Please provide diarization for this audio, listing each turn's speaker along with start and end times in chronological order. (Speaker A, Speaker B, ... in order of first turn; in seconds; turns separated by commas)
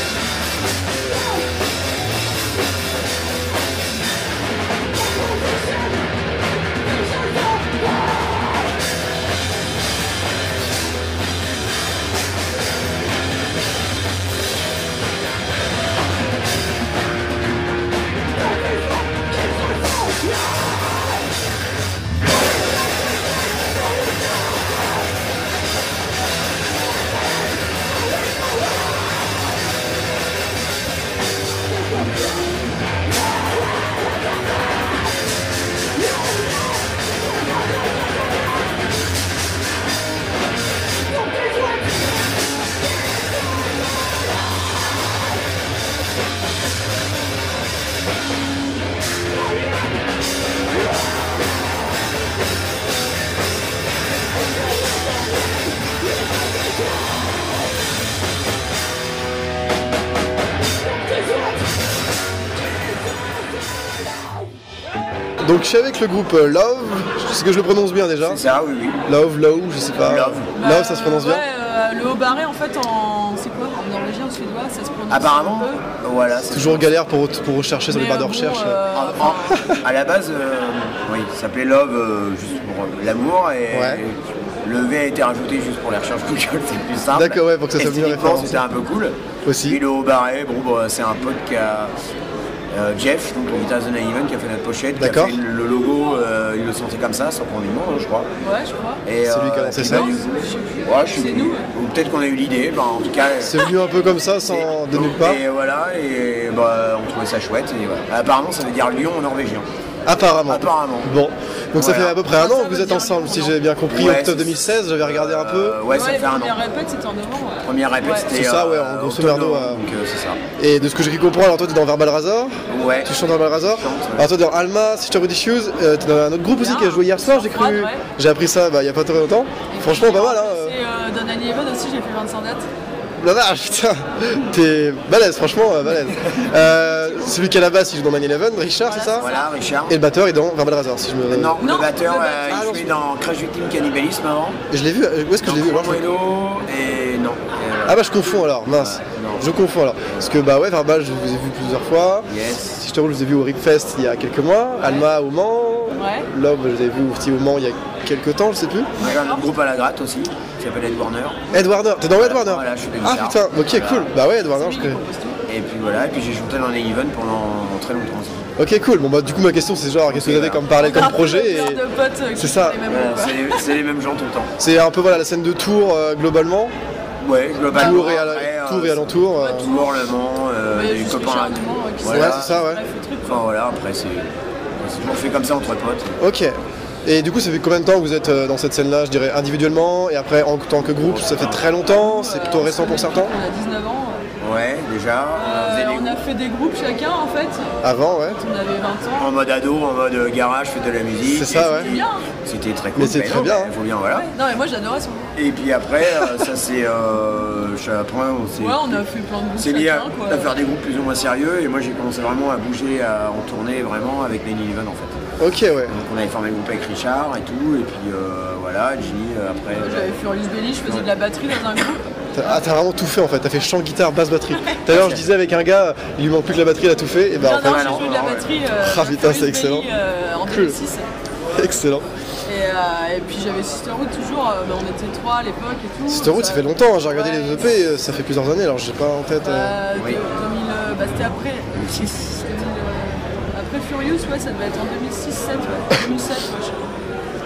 Speaker A: 65.4-68.5, Speaker B: 68.2-69.0, Speaker A: 69.0-71.4, Speaker B: 70.0-70.5, Speaker C: 70.5-75.8, Speaker B: 75.1-76.8, Speaker A: 76.5-78.8, Speaker C: 77.9-79.6, Speaker B: 78.9-91.9, Speaker A: 79.5-79.8, Speaker A: 83.7-84.0, Speaker A: 87.1-88.7, Speaker A: 89.5-89.8, Speaker B: 92.7-98.3, Speaker A: 95.0-95.4, Speaker C: 98.4-99.0, Speaker B: 99.0-103.7, Speaker A: 99.2-100.1, Speaker C: 99.8-101.7, Speaker A: 103.4-105.4, Speaker B: 104.5-109.7, Speaker A: 110.0-115.8, Speaker B: 110.5-111.1, Speaker B: 111.7-112.2, Speaker C: 112.3-113.7, Speaker B: 113.9-116.5, Speaker C: 115.9-118.3, Speaker B: 117.6-120.4, Speaker A: 118.3-119.8, Speaker A: 120.6-130.8, Speaker B: 122.7-124.3, Speaker C: 126.6-128.0, Speaker C: 129.7-132.7, Speaker A: 133.2-139.3, Speaker C: 136.5-137.4, Speaker C: 138.8-139.5, Speaker B: 139.2-139.9, Speaker A: 139.9-141.6, Speaker B: 141.3-144.6, Speaker C: 141.6-142.6, Speaker A: 142.5-143.0, Speaker A: 144.7-146.0, Speaker B: 145.4-148.1, Speaker A: 147.9-158.9, Speaker B: 148.8-149.5, Speaker B: 152.3-152.8, Speaker C: 155.9-156.3, Speaker C: 159.0-159.5, Speaker B: 159.0-161.5, Speaker A: 161.5-165.0, Speaker B: 162.2-164.1, Speaker C: 164.2-165.4, Speaker B: 165.5-168.5, Speaker A: 168.6-171.8, Speaker B: 170.1-170.6, Speaker C: 170.7-173.8, Speaker A: 172.3-172.8, Speaker B: 172.9-174.5, Speaker A: 174.6-176.7, Speaker B: 177.2-182.6, Speaker C: 177.7-178.3, Speaker A: 177.7-179.7, Speaker C: 179.3-180.1, Speaker C: 180.7-183.4, Speaker A: 182.1-182.8, Speaker B: 183.2-186.2, Speaker A: 186.2-193.3, Speaker B: 191.0-191.6, Speaker C: 191.7-194.2, Speaker B: 194.4-196.2, Speaker C: 195.4-199.3, Speaker A: 197.8-198.4, Speaker B: 199.2-204.3, Speaker A: 201.3-201.9, Speaker C: 201.5-202.3, Speaker A: 202.9-203.7, Speaker C: 204.1-205.3, Speaker B: 205.3-209.0, Speaker C: 208.6-210.5, Speaker B: 209.6-215.2, Speaker A: 215.4-215.9, Speaker B: 215.8-220.1, Speaker C: 219.8-222.2, Speaker A: 222.3-228.0, Speaker B: 224.9-225.2, Speaker C: 227.3-231.1, Speaker B: 227.5-228.5, Speaker A: 228.8-229.9, Speaker A: 230.5-230.8, Speaker A: 231.5-232.1, Speaker C: 232.5-237.9, Speaker A: 236.1-239.8, Speaker C: 239.4-247.0, Speaker B: 239.9-240.2, Speaker B: 241.7-242.3, Speaker B: 245.6-245.9